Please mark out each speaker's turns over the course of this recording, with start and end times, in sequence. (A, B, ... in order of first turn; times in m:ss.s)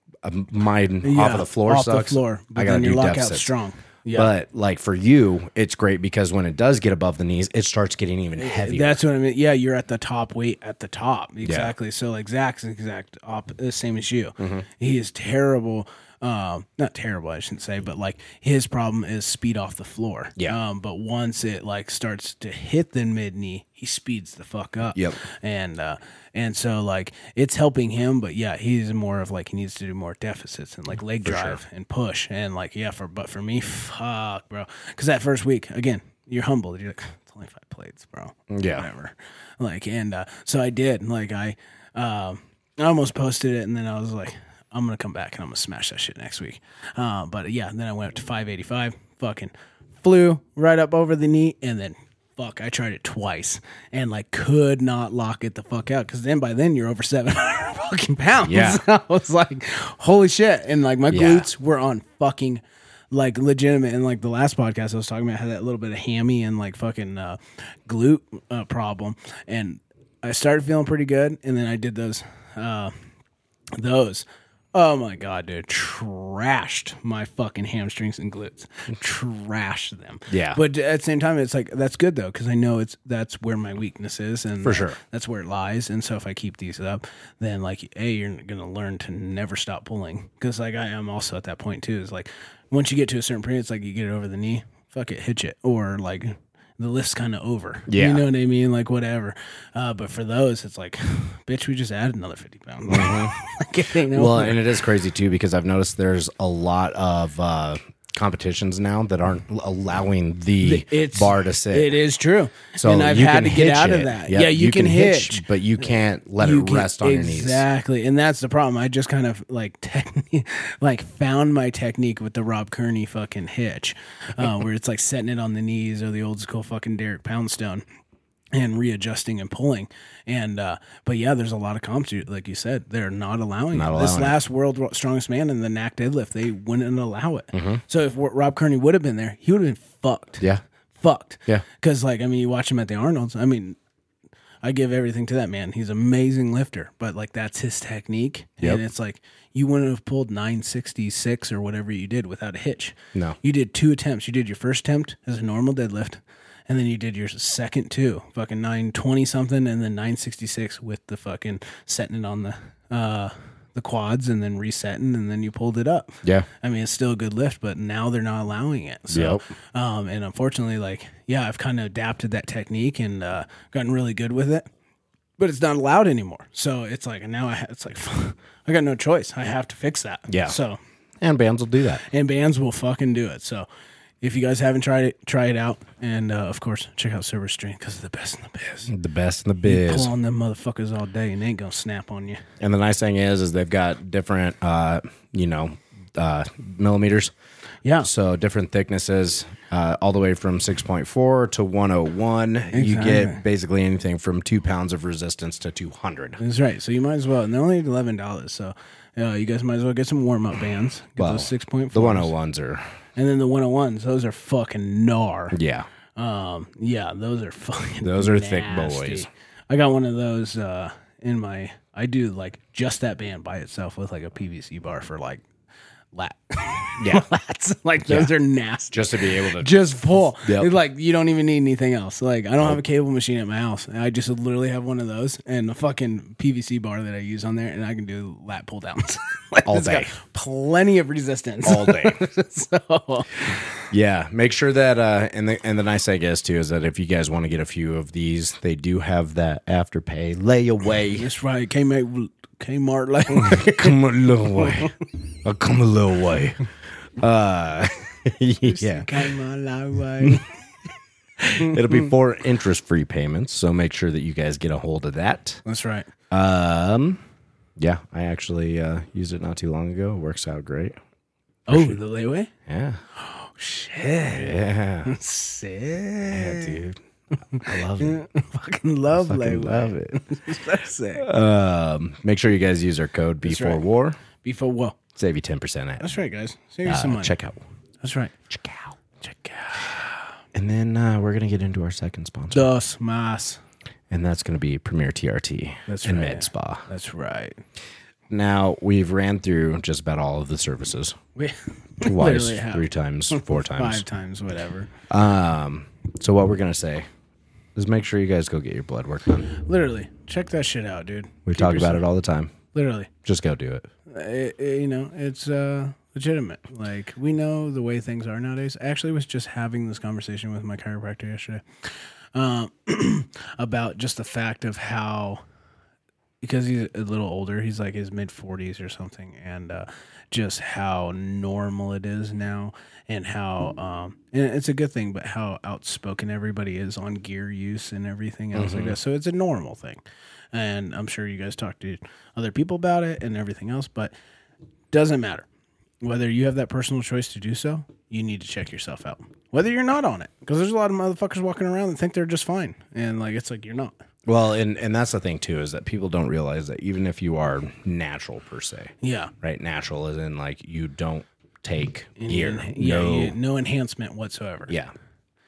0:00.2-0:03.5 A
0:01.0-0:04.3 B
0:04.1-0:09.0 A
0:08.4-1:12.9 B
0:11.4-0:11.7 A
0:14.4-0:14.6 A
0:24.9-0:25.2 A
0:31.2-0:31.6 A
0:38.5-0:38.9 A
0:58.4-0:58.8 A
1:01.1-1:01.5 A
1:13.7-1:44.6 B
1:20.3-1:20.6 A
1:24.6-1:25.0 A
1:37.9-1:38.2 A
1:42.9-1:43.3 A
1:44.0-1:51.9 A
1:50.6-1:55.4 B
1:52.7-1:57.6 A
1:56.4-2:07.8 B
2:08.5-2:20.4 B
2:13.7-2:14.4 A
2:17.5-2:17.8 A
2:20.9-2:23.8 B
2:24.6-2:54.7 B
2:49.1-2:49.5 A
2:55.4-3:00.8 B
3:00.3-3:00.6 A
3:01.2-3:02.0 A
3:02.1-3:03.7 B
3:04.2-3:08.9 B
3:08.9-3:10.1 A
3:09.6-3:12.4 B
3:12.6-3:17.3 A
3:18.0-3:26.4 A
3:22.7-3:23.4 B
3:26.4-3:32.3 B
3:31.2-3:32.8 A
3:33.2-3:35.6 B
3:35.5-3:35.9 A
3:36.2-3:45.4 B
3:38.0-3:39.3 A
3:46.1-4:03.8 B
3:47.0-3:47.3 A
3:48.0-3:48.3 A
3:48.9-3:50.7 A
3:59.6-4:00.1 A
4:01.6-4:02.2 A
4:03.9-4:11.3 A
4:11.2-4:14.0 B
4:13.3-4:14.9 A
4:14.6-4:14.9 B
4:15.4-4:16.6 A
4:17.2-4:19.1 A
4:18.6-4:20.5 B
4:21.4-4:25.6 A
4:25.6-4:26.1 B
4:26.3-4:27.2 A
4:27.8-4:31.0 A
4:31.7-4:32.5 B
4:31.7-4:32.0 A
4:32.7-4:33.0 A
4:33.2-4:36.8 B
4:34.3-4:35.1 A
4:36.3-4:37.0 A
4:37.5-4:41.3 B
4:37.5-4:38.2 A
4:39.1-4:40.2 A
4:41.2-4:44.2 A
4:43.4-4:43.8 B
4:44.4-4:45.0 B
4:45.1-4:46.2 A
4:46.0-4:47.3 B
4:46.8-4:47.6 A
4:48.0-4:48.3 B
4:48.5-4:49.0 A
4:49.2-4:50.3 B
4:50.5-4:52.7 A
4:52.5-4:53.6 B
4:54.1-4:56.8 A
4:55.9-4:57.6 B
4:58.3-5:01.2 A
5:01.4-5:04.9 B
5:02.0-5:04.0 A
5:05.1-5:07.1 A
5:07.7-5:09.5 A
5:09.6-5:12.0 B
5:11.4-5:12.5 A
5:12.7-5:13.1 B
5:13.2-5:13.9 A
5:14.1-5:21.6 B
5:22.3-5:25.4 B
5:26.4-5:40.0 B
5:38.5-5:39.0 A
5:40.5-5:44.1 B
5:44.9-5:45.5 B
5:46.0-5:53.9 B
5:54.2-6:03.4 A
5:59.0-5:59.3 B
6:02.2-6:04.7 B
6:04.7-6:04.9 A